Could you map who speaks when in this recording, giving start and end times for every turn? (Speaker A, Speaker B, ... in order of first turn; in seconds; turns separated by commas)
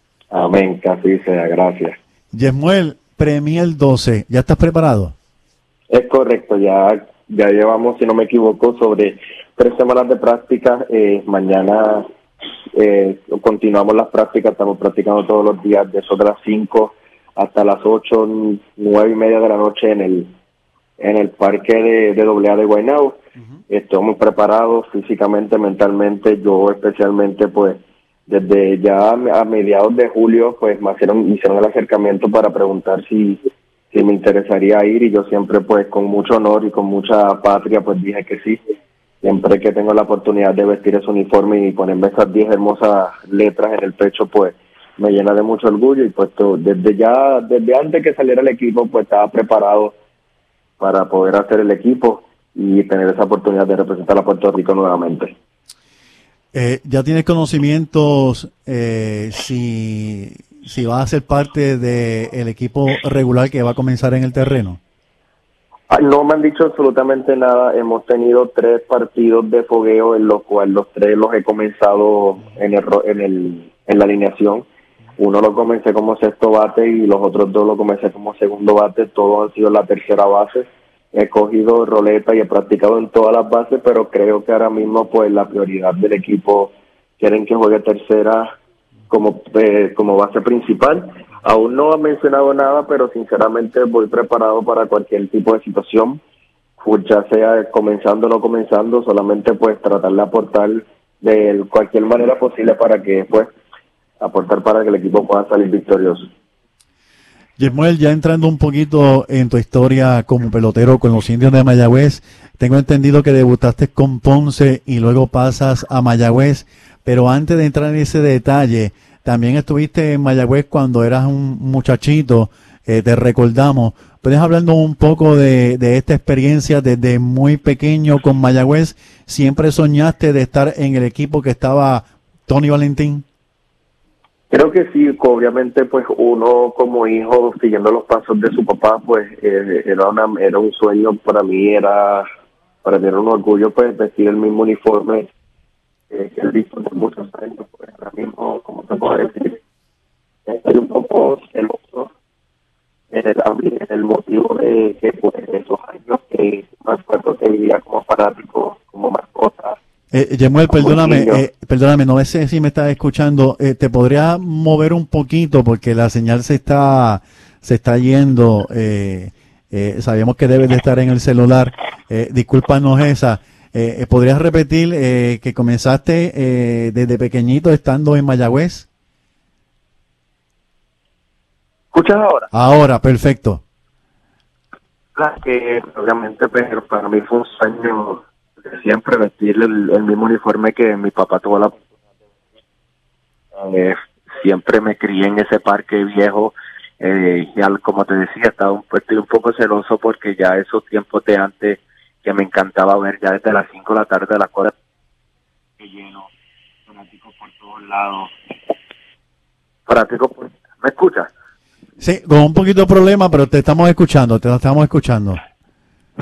Speaker A: 0.3-2.0, Speaker B: 2.3-5.1, Speaker A: 5.9-12.1, Speaker A: 12.7-20.3, Speaker A: 21.0-23.2, Speaker A: 23.7-38.6, Speaker A: 39.2-50.0, Speaker A: 50.8-55.3, Speaker B: 56.5-64.8, Speaker A: 65.9-74.7, Speaker A: 75.2-88.5, Speaker A: 89.1-96.2, Speaker A: 96.8-103.5, Speaker A: 104.2-106.3, Speaker B: 107.6-133.2, Speaker A: 134.5-142.2, Speaker A: 142.8-145.3, Speaker A: 146.1-149.6, Speaker A: 150.4-152.1, Speaker A: 153.1-159.8, Speaker B: 160.1-178.9, Speaker A: 160.7-161.4, Speaker C: 181.9-182.5, Speaker B: 182.5-183.6, Speaker C: 185.2-191.8, Speaker C: 193.5-204.7, Speaker C: 205.8-206.3, Speaker C: 206.9-208.3, Speaker C: 209.9-211.3, Speaker B: 212.0-215.4